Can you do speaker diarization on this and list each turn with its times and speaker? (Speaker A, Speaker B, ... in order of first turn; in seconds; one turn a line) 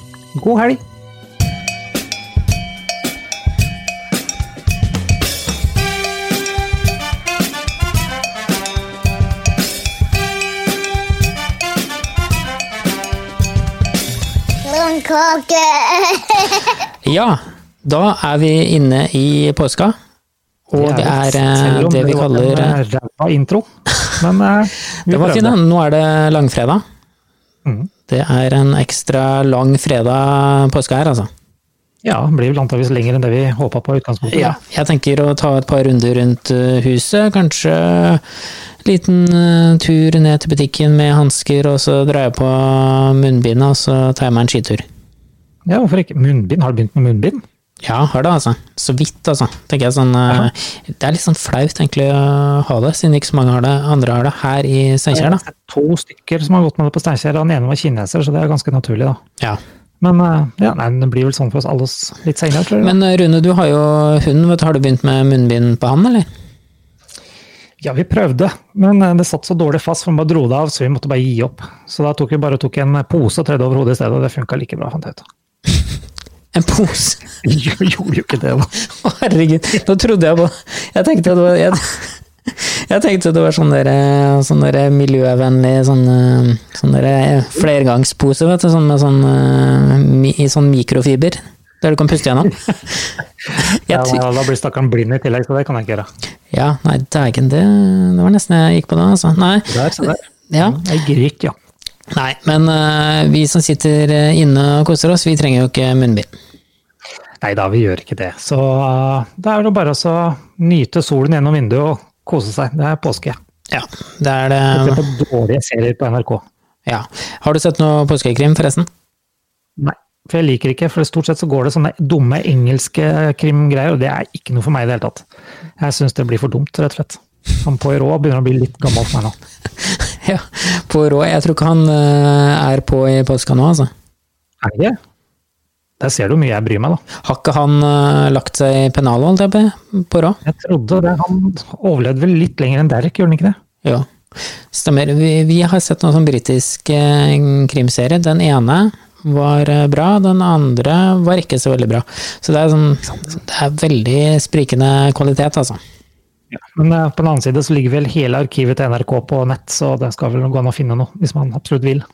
Speaker A: 0.3-0.8
Speaker B: 14.6-16.7
Speaker C: 17.0-19.9
Speaker C: 20.7-22.8
Speaker A: 20.8-25.6
Speaker C: 25.1-26.8
Speaker A: 27.6-27.9
Speaker C: 28.1-31.3
Speaker A: 32.0-34.6
Speaker C: 34.3-38.2
Speaker C: 38.8-44.9
Speaker A: 45.6-47.4
Speaker C: 47.8-55.4
Speaker A: 55.1-59.2
Speaker A: 60.0-63.0
Speaker C: 62.8-66.3
Speaker A: 67.8-75.2
Speaker C: 76.5-77.2
Speaker A: 77.4-78.7
Speaker C: 78.8-94.2
Speaker A: 93.4-96.1
Speaker C: 96.5-100.8
Speaker A: 99.7-101.5
Speaker C: 102.1-106.3
Speaker A: 107.4-113.4
Speaker C: 113.7-115.0
Speaker A: 114.7-116.4
Speaker C: 116.8-118.9
Speaker A: 119.8-125.2
Speaker A: 125.8-129.3
Speaker C: 129.8-133.9
Speaker A: 134.6-135.0
Speaker A: 136.0-137.0
Speaker C: 137.2-140.4
Speaker A: 140.4-143.6
Speaker C: 143.8-144.1
Speaker C: 144.7-155.8
Speaker A: 156.5-162.0